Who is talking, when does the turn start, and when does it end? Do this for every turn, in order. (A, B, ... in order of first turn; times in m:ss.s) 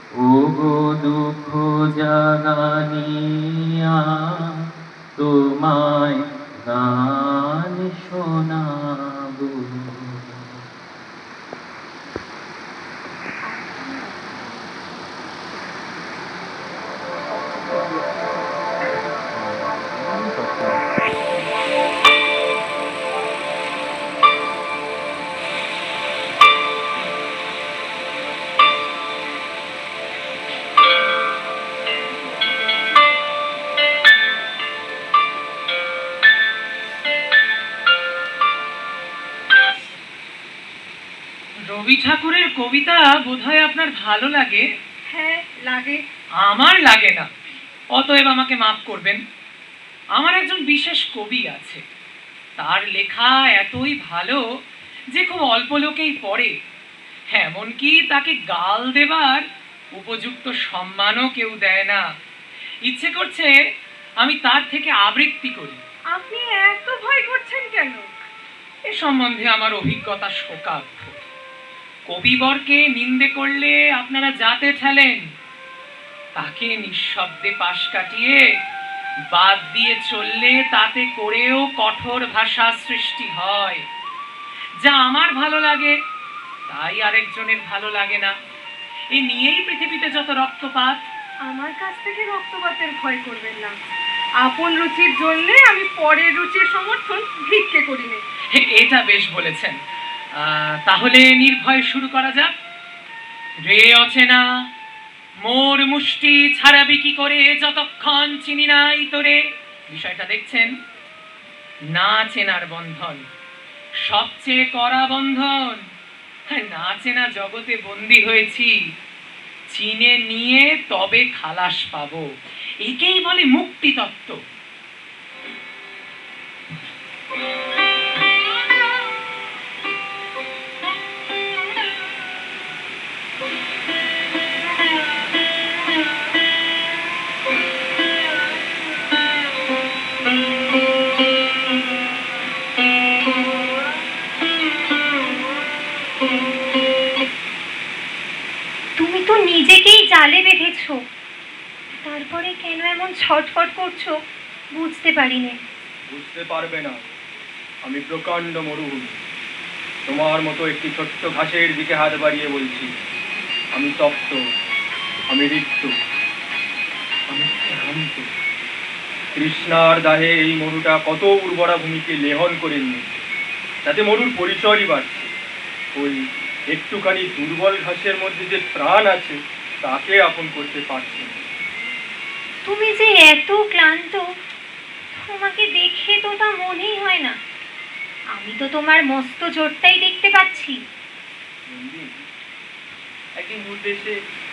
0:00.2-0:04.4 A
0:05.2-0:10.4 A
0:41.7-0:44.6 B
0:45.1-0:46.0 C
0:46.4-0:47.3 B
0:48.0-0:49.2 B
0:50.2-0:51.8 B
0:52.6-0:54.4 B
0:55.1-0:56.5 B
0:57.3-0:59.4 B
1:00.0-1:02.0 B
1:02.9-1:03.5 B
1:04.2-1:05.8 B
1:06.1-1:08.0 C
1:08.9-1:11.3 B
1:12.1-1:15.2 B
1:16.4-1:18.4 B
1:19.3-1:23.9 B
1:24.8-1:25.9 B
1:26.7-1:28.3 B
1:29.2-1:31.0 B
1:31.5-1:33.8 C
1:34.4-1:38.2 C
1:38.5-1:39.8 B
1:40.4-1:42.5 B
1:43.7-1:44.4 B
1:45.4-1:49.4 B
1:49.9-1:50.7 B
1:51.9-1:53.2 B
1:54.1-1:55.8 B
1:56.5-1:58.7 B
1:59.7-2:02.2 B
2:02.8-2:04.4 B
2:29.0-2:31.0 D
2:32.0-2:34.2 D
2:34.7-2:35.6 D
2:36.1-2:37.1 E
2:37.8-2:39.2 E
2:40.1-2:42.9 E
2:43.7-2:44.4 E
2:45.3-2:45.9 E
2:47.3-2:48.3 E
2:49.4-2:53.2 E
2:53.8-2:55.3 E
2:56.0-3:01.4 E
3:02.6-3:04.2 D
3:05.1-3:07.4 D
3:08.4-3:10.8 D
3:11.7-3:12.1 E
3:13.4-3:14.2 E